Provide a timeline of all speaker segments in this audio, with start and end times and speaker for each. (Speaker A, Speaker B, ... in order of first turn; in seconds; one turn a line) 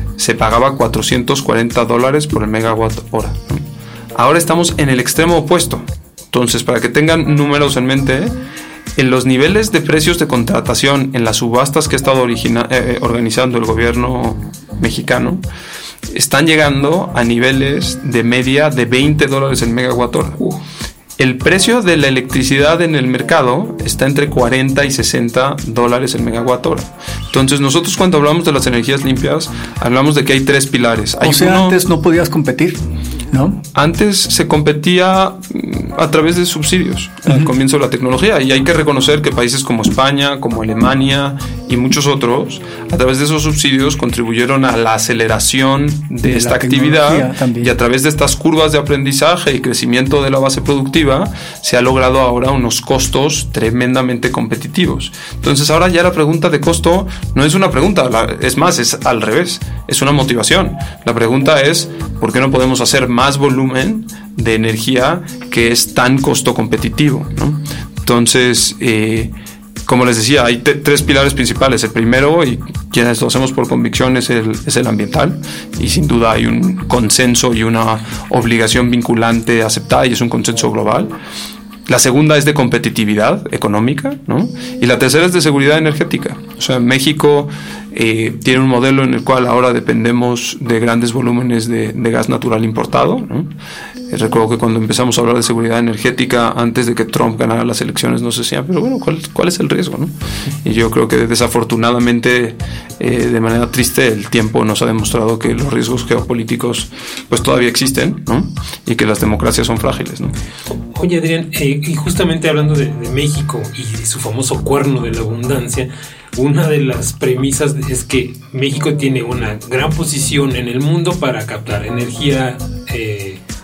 Speaker A: 0.2-8.3
Speaker A: 9.0-15.4
Speaker A: 16.1-20.4
Speaker A: 21.2-31.8
Speaker B: 31.2-32.8
Speaker B: 33.3-33.6
Speaker A: 33.8-69.3
Speaker B: 46.2-47.7
Speaker A: 69.9-81.1
Speaker A: 81.9-93.5
Speaker A: 94.1-110.3
Speaker C: 110.9-123.4